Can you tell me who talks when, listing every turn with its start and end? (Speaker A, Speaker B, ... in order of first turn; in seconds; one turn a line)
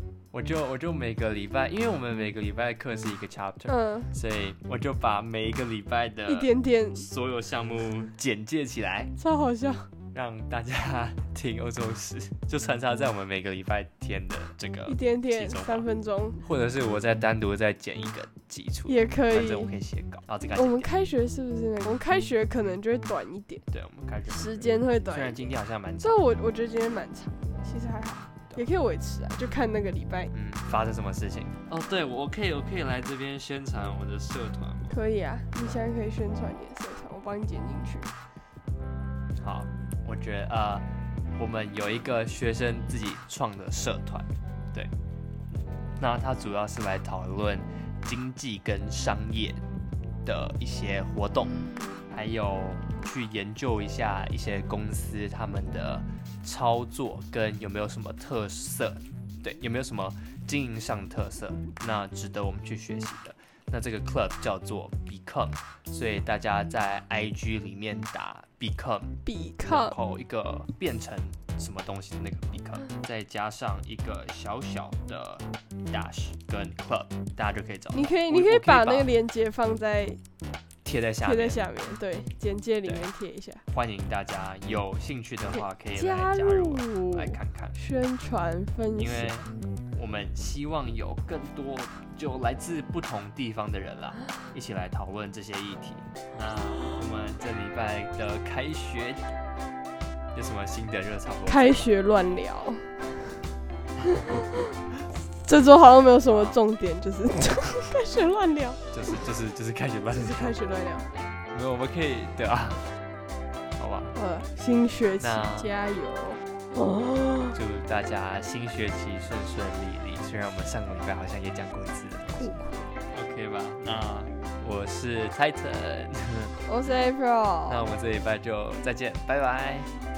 Speaker A: 0.3-9.1
Speaker B: 3.7-4.1
Speaker B: 6.3-7.0
Speaker B: 9.2-9.9
Speaker A: 10.1-15.8
Speaker B: 14.8-16.4
Speaker A: 16.4-20.9
Speaker B: 18.9-19.7
Speaker B: 20.5-23.6
Speaker A: 23.7-26.2
Speaker B: 24.3-30.3
Speaker A: 30.3-34.9
Speaker B: 34.9-38.1
Speaker A: 39.4-40.9
Speaker A: 41.4-44.9
Speaker A: 46.0-49.6
Speaker A: 50.2-79.1
Speaker B: 69.2-69.9
Speaker B: 77.9-80.2
Speaker A: 80.8-81.6
Speaker B: 81.2-83.6
Speaker A: 83.7-87.8
Speaker B: 85.5-89.3
Speaker A: 89.0-99.2
Speaker A: 100.3-101.9
Speaker B: 101.5-103.0
Speaker B: 104.1-104.4
Speaker B: 105.4-109.2
Speaker A: 106.2-106.6
Speaker A: 108.9-110.5
Speaker B: 110.1-111.1
Speaker A: 111.5-112.9
Speaker A: 113.8-114.1
Speaker B: 114.1-117.6
Speaker A: 115.2-115.7
Speaker A: 117.5-126.5
Speaker B: 122.3-122.9
Speaker B: 126.7-127.8
Speaker A: 127.7-129.9